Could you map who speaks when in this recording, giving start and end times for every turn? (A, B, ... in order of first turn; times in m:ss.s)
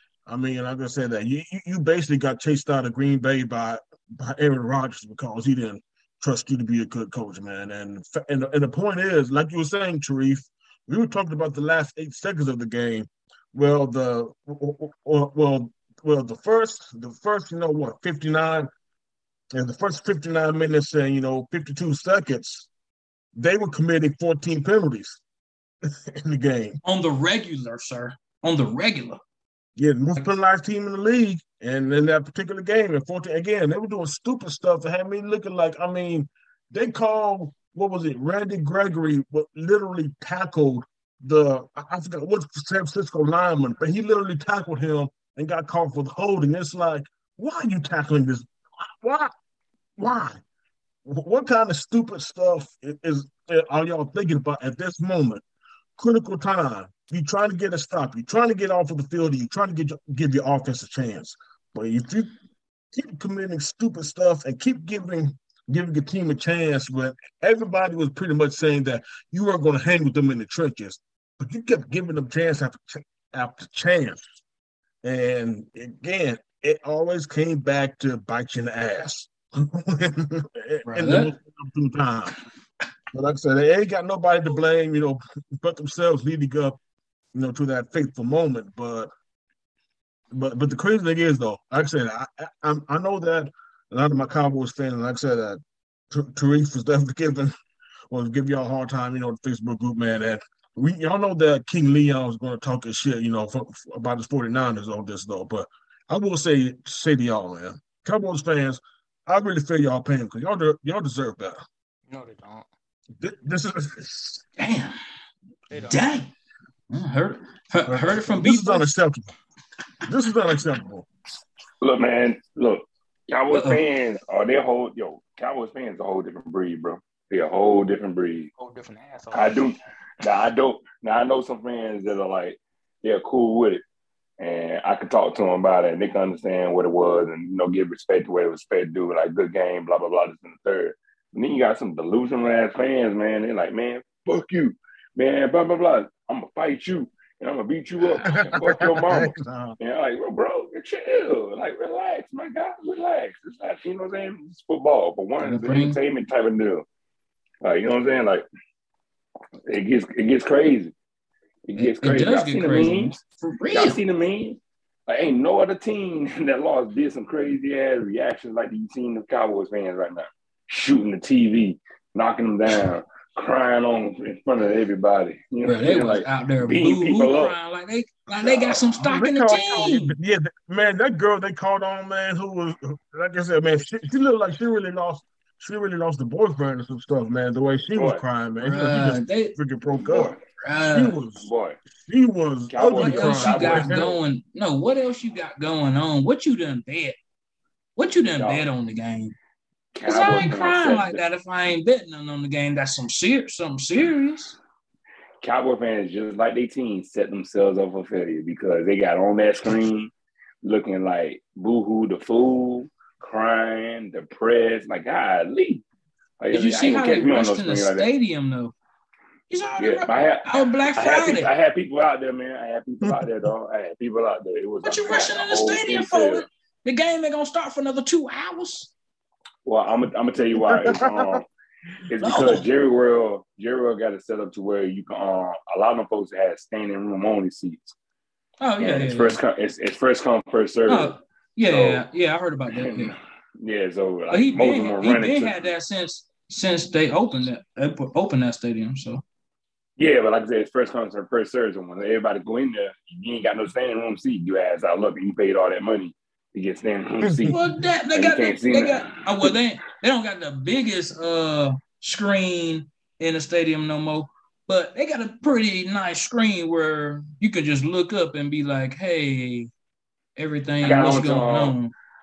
0:00.3-0:18.7 A
0:19.5-0:22.7 A
0:23.4-0:25.2 A
0:25.8-0:26.8 A
0:26.8-0:29.2 B
0:29.8-0:49.3 A
0:50.0-0:50.4 A
0:51.1-0:55.4 A
0:56.0-1:02.3 A
1:02.9-1:14.3 A
1:15.0-1:22.4 A
1:20.8-1:21.3 B
1:23.1-1:26.8 A
1:27.3-1:29.1 A
1:30.3-1:37.5 A
1:38.1-1:51.6 A
1:52.1-1:52.7 C
1:53.2-1:54.4 A
1:54.6-1:55.0 B
1:55.7-1:56.0 C
1:55.7-1:56.3 B
1:56.9-1:58.9 B
1:57.9-1:59.3 A
2:00.0-2:01.1 A
2:01.8-2:08.5 D
2:03.5-2:03.8 B
2:08.6-2:09.6 C
2:09.3-2:13.8 D
2:14.4-2:36.8 D
2:28.2-2:29.8 A
2:35.4-2:36.0 B
2:37.6-2:38.5 D
2:39.7-2:40.9 D
2:41.6-2:43.2 D
2:41.8-2:44.0 B
2:43.7-2:57.6 D
2:55.7-3:00.2 B
2:58.4-2:58.9 D
2:59.0-3:10.4 A
3:07.9-3:08.2 D
3:08.6-3:09.6 B
3:10.0-3:10.4 D
3:10.6-3:11.2 B
3:10.9-3:14.2 A
3:11.4-3:11.8 D
3:12.7-3:14.0 D
3:13.0-3:17.2 B
3:18.0-3:19.4 B
3:18.4-3:18.7 D
3:19.9-3:21.2 D
3:20.0-3:24.6 B
3:25.4-3:30.1 D
3:30.6-3:35.8 D
3:36.4-3:38.1 D
3:36.5-3:38.7 B
3:39.5-3:41.5 B
3:39.8-3:46.4 D
3:44.8-3:48.9 B
3:49.6-3:51.5 D
3:50.6-3:51.4 A
3:52.1-3:58.0 D
3:52.2-3:52.6 B
3:58.6-3:59.4 B
3:58.8-4:01.2 D
4:00.9-4:03.2 B
4:01.7-4:02.0 D
4:02.7-4:05.7 D
4:04.3-4:09.2 B
4:10.0-4:17.6 D
4:17.2-4:17.6 A
4:17.5-4:29.7 B
4:18.1-4:19.5 D
4:30.4-4:31.9 B
4:30.8-4:31.8 D